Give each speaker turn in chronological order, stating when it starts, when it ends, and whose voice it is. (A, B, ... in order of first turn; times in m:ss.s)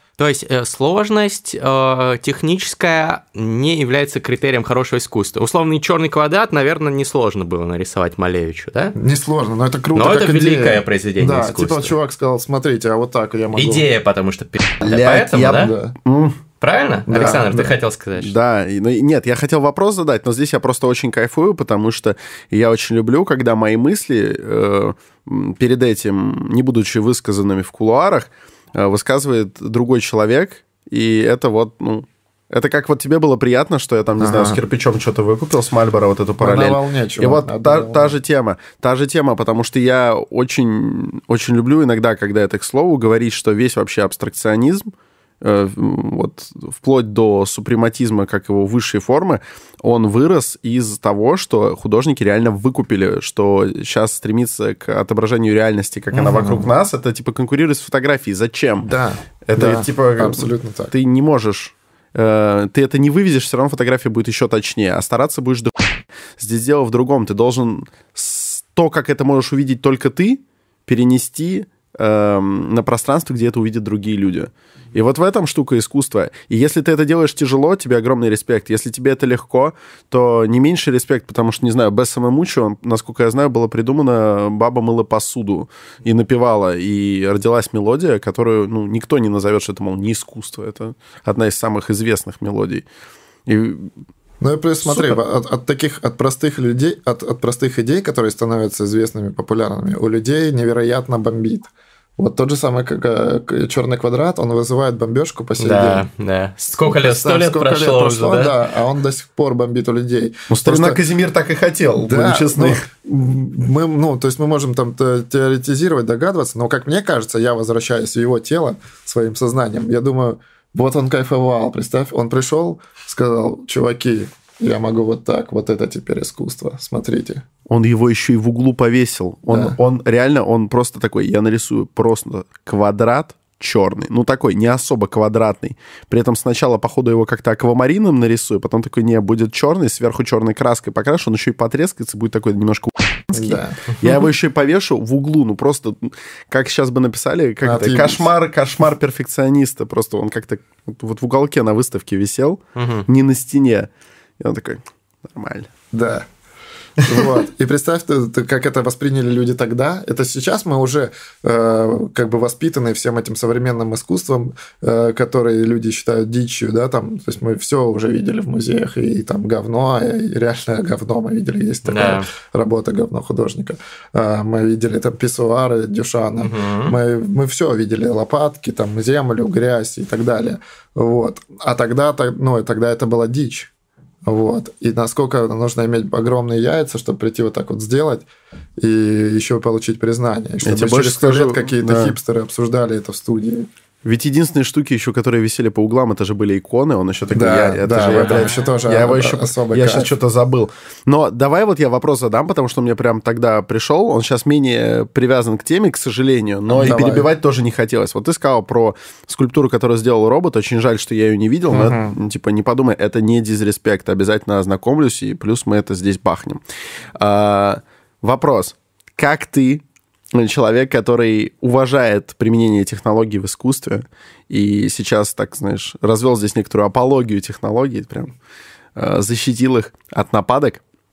0:00.2-0:09.0 A
0:09.0-0:13.9 B
0:09.9-0:11.9 A
0:13.6-0:15.7 A
0:14.8-0:16.4 C
0:15.5-0:16.0 B
0:16.6-0:18.3 A
0:17.1-0:17.7 B
0:18.2-0:58.9 C
0:34.2-0:34.6 B
0:36.4-0:38.2 B
0:56.1-0:56.7 B
0:58.8-1:00.9 B
0:59.5-1:32.8 C
1:33.5-1:33.9 C
1:34.4-1:46.1 B
1:34.8-1:35.2 C
1:45.6-1:48.6 A
1:46.9-1:51.0 B
1:50.5-1:52.9 C
1:52.0-2:07.5 B
2:07.7-2:35.7 C
2:09.5-2:09.8 B
2:23.3-2:23.8 B
2:27.6-2:28.3 B
2:32.8-2:33.1 A
2:35.9-2:36.3 B
2:37.0-3:03.7 B
2:51.9-2:52.3 A
2:56.4-2:57.0 A
3:04.3-3:08.3 B
3:08.8-3:13.7 B
3:10.6-3:12.2 C
3:14.0-3:36.6 C
3:17.3-3:20.1 B
3:18.1-3:18.7 A
3:26.7-3:27.3 B
3:31.7-3:32.2 B
3:37.2-3:48.3 C
3:49.0-3:50.8 C